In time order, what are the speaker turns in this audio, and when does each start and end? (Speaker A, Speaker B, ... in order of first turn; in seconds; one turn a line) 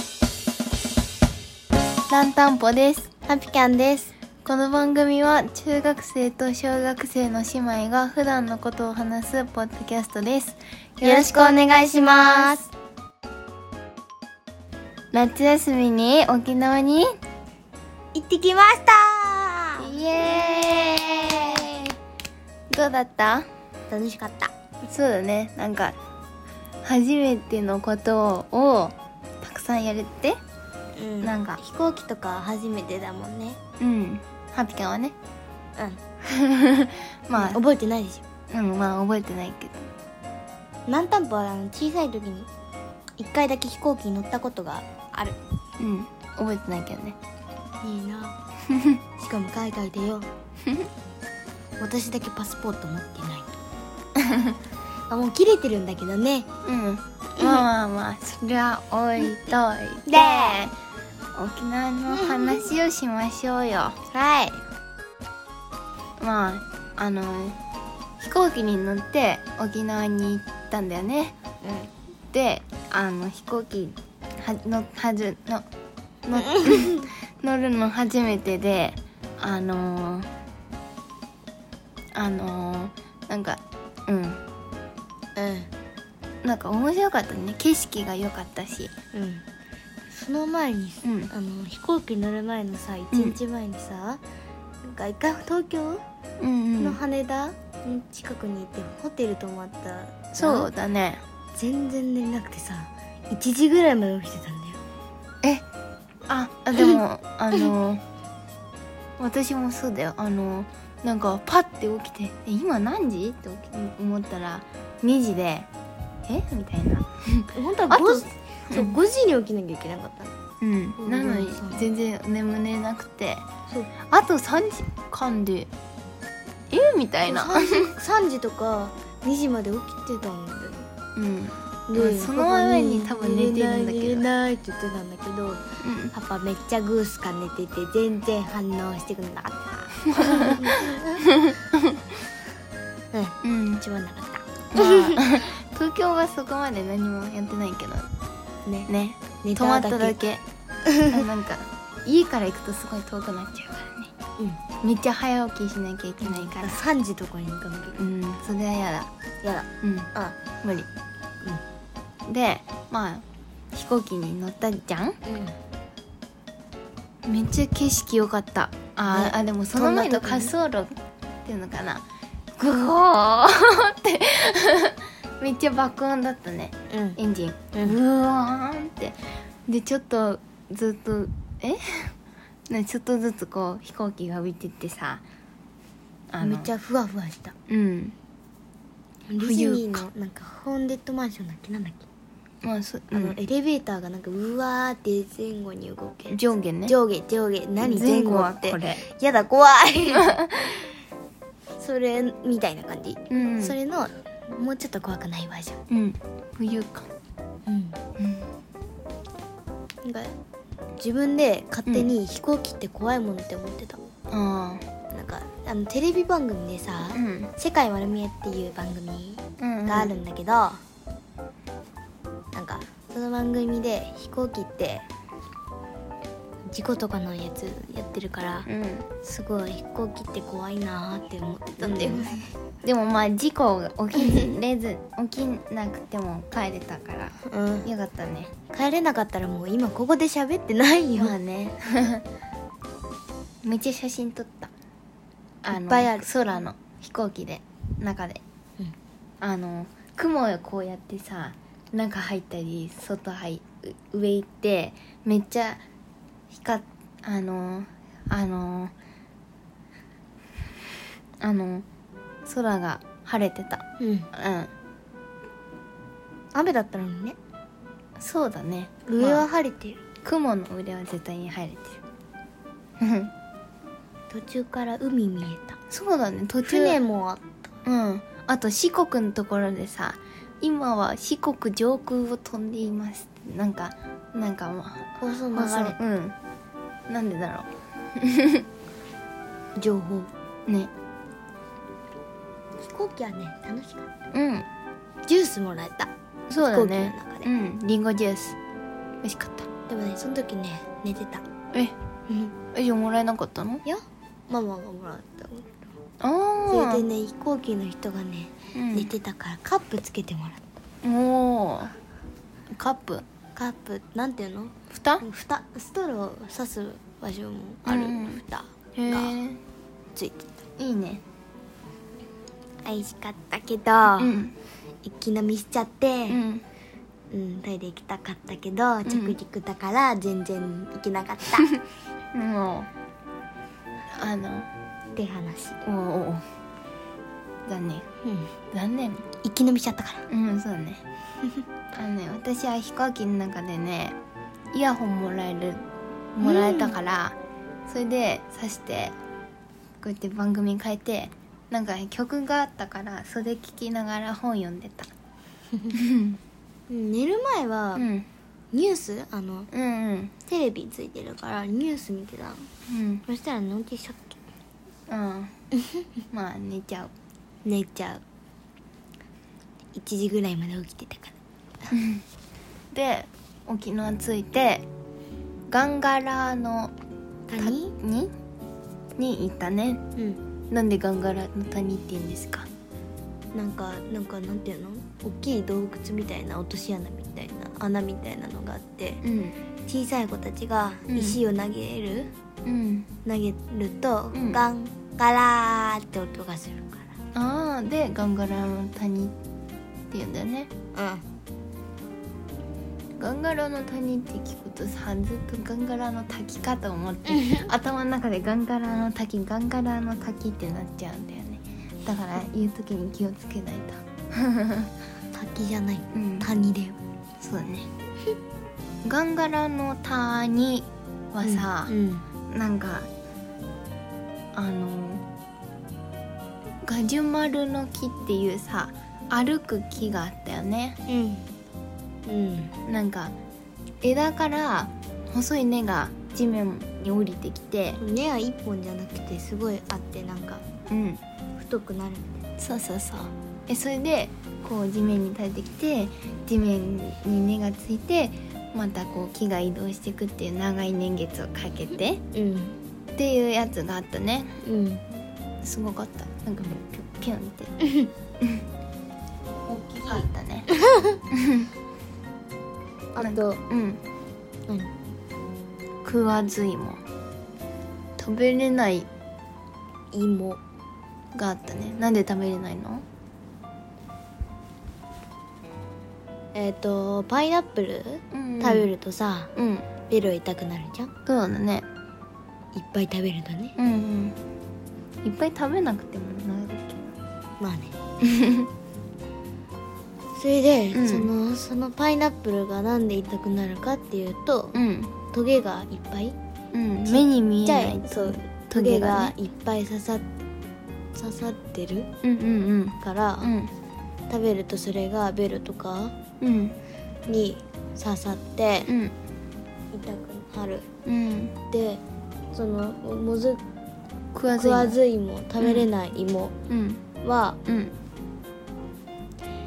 Speaker A: 2.1-3.1
Speaker B: 3.3-4.1
Speaker A: 4.5-12.5
Speaker B: 11.0-12.7
Speaker A: 15.1-17.1
Speaker B: 18.1-21.9
Speaker A: 19.8-21.9
Speaker A: 22.7-23.5
Speaker B: 23.9-24.5
Speaker A: 24.8-26.0
Speaker A: 26.8-30.4
Speaker B: 31.0-33.6
Speaker A: 31.2-31.6
Speaker A: 33.8-35.1
Speaker B: 35.8-36.0
Speaker A: 36.3-37.6
Speaker B: 37.3-38.2
Speaker A: 38.5-39.9
Speaker B: 40.9-42.5
Speaker B: 43.2-45.4
Speaker A: 45.8-47.2
Speaker B: 47.8-48.4
Speaker A: 48.7-49.0
Speaker B: 49.2-50.3
Speaker B: 51.8-53.6
Speaker A: 54.2-54.6
Speaker B: 55.1-56.5
Speaker A: 56.7-60.8
Speaker B: 57.4-57.7
Speaker B: 60.1-60.6
Speaker A: 61.3-64.0
Speaker B: 62.1-62.7
Speaker B: 64.1-64.6
Speaker A: 66.2-67.6
Speaker A: 68.2-71.4
Speaker B: 71.6-71.9
Speaker A: 72.3-75.7
Speaker A: 76.3-80.3
Speaker B: 76.4-77.0
Speaker A: 82.2-84.4
Speaker B: 85.3-85.7
Speaker A: 86.4-88.9
Speaker B: 89.1-89.5
Speaker B: 90.1-94.2
Speaker A: 91.0-91.3
Speaker A: 93.1-93.4
Speaker B: 94.8-96.0
Speaker A: 96.4-97.0
Speaker B: 96.8-100.7
Speaker A: 100.3-101.2
Speaker B: 101.5-104.8
Speaker A: 106.3-108.0
Speaker A: 109.2-115.7
Speaker A: 116.3-119.0
Speaker B: 117.5-120.4
Speaker A: 120.6-123.5
Speaker B: 121.0-121.8
Speaker A: 124.1-125.7
Speaker A: 126.7-127.9
Speaker B: 127.2-130.9
Speaker A: 131.2-134.3
Speaker B: 131.9-141.2
Speaker A: 135.8-136.1
Speaker A: 140.1-142.0
Speaker B: 143.1-145.2
Speaker A: 143.4-143.8
Speaker A: 144.7-148.1
Speaker A: 148.9-150.4
Speaker B: 149.4-150.2
Speaker B: 150.9-151.3
Speaker A: 151.1-154.1
Speaker A: 154.8-156.8
Speaker B: 156.2-158.0
Speaker A: 158.0-159.1
Speaker B: 159.4-160.4
Speaker A: 159.8-160.9
Speaker A: 162.3-165.2
Speaker B: 165.2-165.6
Speaker A: 167.3-170.9
Speaker B: 169.1-170.5
Speaker A: 171.4-172.1
Speaker A: 172.6-182.1
Speaker B: 176.9-177.2
Speaker A: 182.7-185.2
Speaker A: 186.3-186.7
Speaker B: 186.4-187.6
Speaker A: 187.7-188.2
Speaker B: 189.3-192.1
Speaker A: 189.4-190.1
Speaker A: 192.6-193.4
Speaker B: 193.1-200.4
Speaker A: 196.3-197.0
Speaker A: 197.8-199.0
Speaker A: 200.1-200.8
Speaker B: 201.8-205.8
Speaker A: 203.3-203.8
Speaker A: 205.9-207.1
Speaker B: 207.7-208.0
Speaker A: 208.2-208.5
Speaker B: 210.0-210.4
Speaker B: 211.0-214.1
Speaker A: 211.9-212.1
Speaker A: 214.3-214.9
Speaker B: 215.1-220.8
Speaker A: 217.1-217.5
Speaker A: 219.6-220.2
Speaker B: 222.5-225.1
Speaker B: 226.7-228.7
Speaker A: 228.7-229.1
Speaker B: 229.2-232.5
Speaker A: 231.8-238.5
Speaker B: 237.5-237.9
Speaker B: 238.7-241.4
Speaker A: 241.2-242.2
Speaker A: 243.7-244.7
Speaker A: 245.6-248.4
Speaker B: 245.7-246.3
Speaker A: 249.4-255.8
Speaker A: 256.5-258.9
Speaker A: 261.4-261.9
Speaker A: 262.5-264.7
Speaker B: 264.0-264.3
Speaker B: 266.5-267.4
Speaker A: 268.2-269.5
Speaker B: 269.1-270.0
Speaker A: 270.2-272.0
Speaker A: 273.0-273.3
Speaker B: 274.3-275.8
Speaker A: 275.9-277.0
Speaker B: 276.6-277.6
Speaker A: 277.9-286.4
Speaker B: 285.2-286.0
Speaker A: 287.1-288.6
Speaker B: 289.8-290.3
Speaker B: 292.8-294.1
Speaker A: 294.3-294.7
Speaker B: 295.3-297.5
Speaker A: 296.5-298.6
Speaker A: 299.2-299.7
Speaker B: 299.9-301.4
Speaker B: 302.3-302.5
Speaker A: 302.7-303.8
Speaker B: 303.9-305.9
Speaker A: 306.2-307.1
Speaker B: 306.7-310.8
Speaker A: 308.8-309.1
Speaker A: 311.0-311.9
Speaker A: 312.7-313.2
Speaker B: 313.6-319.4
Speaker A: 314.9-315.2
Speaker A: 317.9-318.4
Speaker A: 319.0-319.6
Speaker B: 320.1-320.5
Speaker A: 320.8-321.2
Speaker B: 322.8-324.4
Speaker A: 324.2-324.5
Speaker B: 325.0-326.4
Speaker A: 326.3-326.6
Speaker B: 327.3-331.7
Speaker A: 329.1-329.4
Speaker A: 332.3-332.9
Speaker A: 334.2-334.7
Speaker B: 335.1-335.9
Speaker A: 335.9-336.4
Speaker A: 337.7-338.1
Speaker B: 338.2-338.5
Speaker A: 338.7-339.3
Speaker B: 339.4-340.2
Speaker A: 340.3-341.0
Speaker A: 341.9-344.2
Speaker A: 344.7-349.1
Speaker B: 346.4-347.0
Speaker A: 350.0-355.1
Speaker A: 355.9-356.4
Speaker B: 356.9-358.1
Speaker A: 357.9-358.3
Speaker B: 358.7-359.7
Speaker A: 359.7-360.3
Speaker B: 360.5-362.7
Speaker A: 362.9-363.2
Speaker B: 363.3-364.4
Speaker A: 365.1-365.5
Speaker A: 366.3-367.1
Speaker B: 367.6-368.2
Speaker B: 369.9-371.4
Speaker A: 371.9-372.2
Speaker A: 372.9-374.9
Speaker A: 375.7-376.9
Speaker B: 377.5-377.9
Speaker A: 377.6-378.3
Speaker A: 379.2-380.0
Speaker A: 380.7-382.7
Speaker B: 383.5-389.2
Speaker A: 389.2-389.6
Speaker B: 389.9-392.3
Speaker A: 391.1-391.4
Speaker A: 392.6-393.1
Speaker B: 393.2-397.2
Speaker A: 394.3-394.6
Speaker A: 397.4-399.3
Speaker A: 400.1-400.7
Speaker B: 400.9-401.2
Speaker A: 403.2-414.9
Speaker B: 407.3-407.7
Speaker B: 415.3-417.0
Speaker A: 416.1-416.5
Speaker A: 417.4-417.9
Speaker A: 419.0-421.9
Speaker B: 421.4-422.2
Speaker A: 422.5-423.1
Speaker A: 424.6-425.2
Speaker A: 426.9-431.0
Speaker B: 431.1-431.5
Speaker B: 432.3-432.7
Speaker A: 432.9-433.3
Speaker A: 434.0-438.0
Speaker B: 438.0-440.6
Speaker A: 440.9-441.2
Speaker B: 441.6-442.4
Speaker A: 442.6-452.2
Speaker B: 452.3-452.8
Speaker A: 453.1-454.6
Speaker B: 454.6-455.0
Speaker A: 455.6-457.7
Speaker A: 459.7-460.7
Speaker B: 459.9-460.2
Speaker B: 460.9-461.1
Speaker A: 461.3-461.7
Speaker B: 463.1-463.6
Speaker A: 463.2-464.0
Speaker A: 466.0-467.0
Speaker A: 468.2-469.1
Speaker B: 470.1-470.6
Speaker A: 471.3-473.1
Speaker B: 476.5-479.5
Speaker A: 478.3-478.9
Speaker A: 479.6-479.9
Speaker B: 480.1-481.1
Speaker A: 481.3-481.9
Speaker B: 482.7-483.8
Speaker A: 483.8-484.4
Speaker A: 485.2-487.1
Speaker B: 487.6-488.0
Speaker A: 488.2-488.7
Speaker B: 490.4-494.8
Speaker A: 490.9-491.3
Speaker A: 494.7-495.1
Speaker B: 495.3-496.4
Speaker A: 496.7-499.4
Speaker B: 497.1-500.3
Speaker B: 501.1-502.1
Speaker A: 502.2-503.7
Speaker B: 503.0-503.6
Speaker B: 504.3-506.1
Speaker A: 506.4-506.8
Speaker B: 507.3-508.9
Speaker A: 508.9-509.1
Speaker B: 509.9-510.9
Speaker A: 511.1-511.6
Speaker B: 511.7-512.0
Speaker B: 512.5-513.6
Speaker A: 514.3-515.0
Speaker B: 514.5-516.5
Speaker A: 515.6-515.9
Speaker A: 516.7-517.0
Speaker B: 517.2-517.6
Speaker A: 517.7-517.9